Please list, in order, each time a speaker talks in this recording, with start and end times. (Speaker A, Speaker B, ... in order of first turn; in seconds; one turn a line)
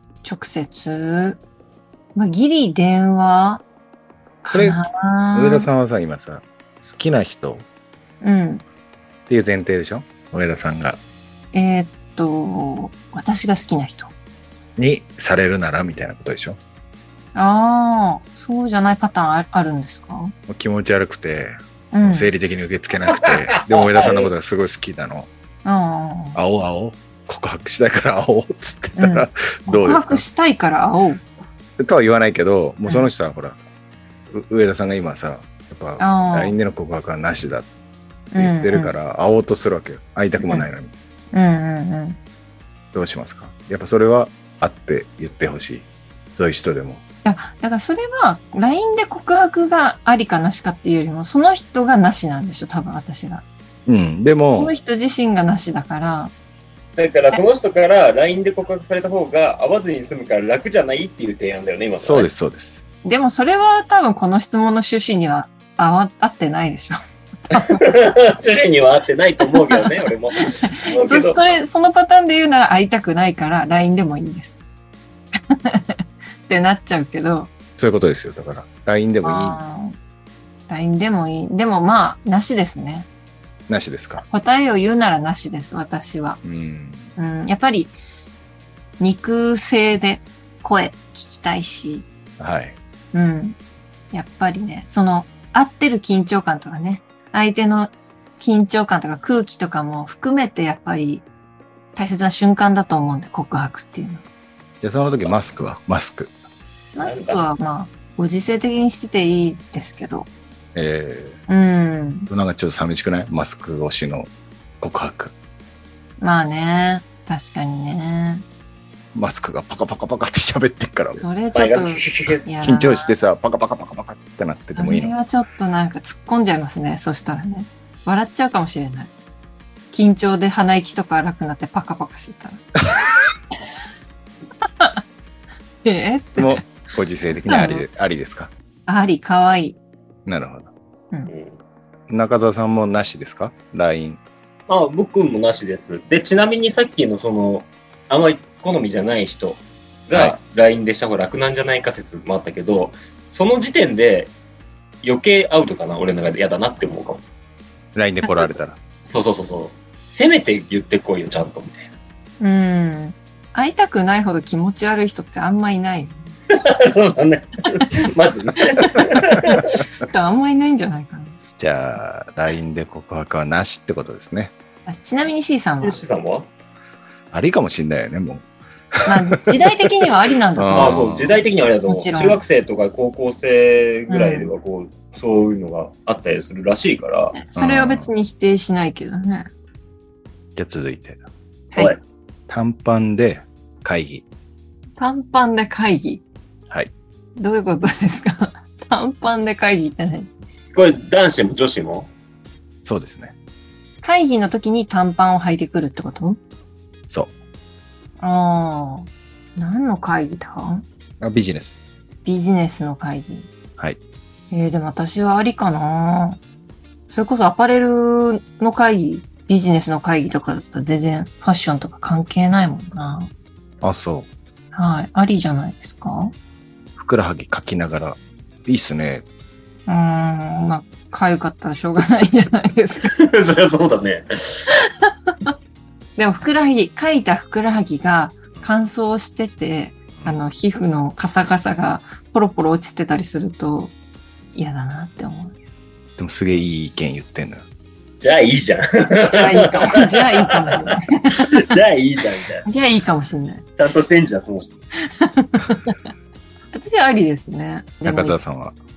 Speaker A: 0.2-1.4
Speaker A: 2.1-3.6
Speaker A: 4.4-5.7
Speaker B: 4.5-7.7
Speaker A: 8.2-8.6
Speaker B: 9.3-11.0
Speaker A: 11.5-14.1
Speaker B: 14.8-16.6
Speaker A: 17.3-20.3
Speaker B: 20.5-25.3
Speaker A: 21.9-22.3
Speaker C: 23.2-24.3
Speaker A: 25.6-26.4
Speaker B: 26.4-30.2
Speaker A: 29.0-31.2
Speaker B: 31.8-33.6
Speaker B: 34.3-37.7
Speaker A: 36.0-36.5
Speaker A: 38.3-38.9
Speaker B: 38.4-40.9
Speaker A: 40.4-40.6
Speaker A: 41.3-42.2
Speaker B: 42.9-47.0
Speaker A: 47.2-53.4
Speaker B: 53.9-54.7
Speaker A: 54.5-56.3
Speaker C: 57.0-62.3
Speaker B: 61.9-62.8
Speaker A: 63.0-67.0
Speaker A: 67.5-67.8
Speaker C: 67.5-71.5
Speaker A: 70.7-74.6
Speaker A: 75.5-77.5
Speaker B: 77.8-79.6
Speaker A: 79.2-79.9
Speaker A: 80.7-83.1
Speaker B: 83.7-84.2
Speaker A: 84.2-86.4
Speaker B: 86.4-87.1
Speaker A: 87.2-88.0
Speaker A: 89.0-92.1
Speaker B: 92.4-92.8
Speaker A: 93.1-93.6
Speaker A: 94.1-101.2
Speaker A: 101.9-104.2
Speaker B: 104.8-106.3
Speaker A: 106.9-110.3
Speaker C: 107.0-107.4
Speaker B: 110.7-111.4
Speaker A: 111.5-112.3
Speaker B: 112.3-114.3
Speaker B: 114.8-115.3
Speaker A: 116.2-118.4
Speaker B: 119.1-121.2
Speaker A: 121.2-123.1
Speaker C: 121.5-122.4
Speaker B: 122.6-125.1
Speaker A: 124.7-129.1
Speaker A: 129.9-132.6
Speaker A: 135.8-136.7
Speaker B: 136.4-138.5
Speaker A: 137.5-137.8
Speaker A: 138.9-139.8
Speaker B: 140.2-140.7
Speaker C: 141.3-141.6
Speaker B: 142.1-144.2
Speaker C: 144.7-154.3
Speaker C: 155.0-157.2
Speaker B: 157.9-158.8
Speaker C: 159.1-161.9
Speaker A: 162.4-166.2
Speaker C: 166.5-169.8
Speaker A: 168.6-169.1
Speaker A: 170.1-171.4
Speaker B: 171.6-174.5
Speaker A: 174.8-176.0
Speaker C: 175.8-176.5
Speaker B: 177.3-178.4
Speaker B: 179.0-179.5
Speaker A: 179.1-181.1
Speaker B: 180.5-181.4
Speaker C: 180.7-187.3
Speaker A: 181.9-182.4
Speaker A: 184.1-184.5
Speaker A: 187.3-189.5
Speaker B: 187.5-188.1
Speaker B: 190.6-191.2
Speaker B: 192.5-194.2
Speaker A: 195.0-196.2
Speaker A: 197.4-200.3
Speaker C: 200.7-202.1
Speaker B: 202.8-203.3
Speaker A: 204.0-206.4
Speaker B: 207.1-207.3
Speaker A: 208.2-210.8
Speaker B: 211.2-211.8
Speaker A: 212.2-213.5
Speaker A: 214.5-216.4
Speaker A: 217.1-223.3
Speaker B: 223.8-224.3
Speaker A: 224.7-226.3
Speaker B: 227.0-229.2
Speaker A: 229.9-233.1
Speaker C: 233.1-234.8
Speaker A: 234.7-235.5
Speaker A: 236.2-243.9
Speaker A: 244.5-245.6
Speaker B: 246.2-247.6
Speaker C: 248.2-252.7
Speaker A: 249.3-251.5
Speaker A: 252.7-253.6
Speaker C: 253.8-254.8
Speaker A: 255.2-255.9
Speaker A: 256.7-258.4
Speaker B: 258.0-258.7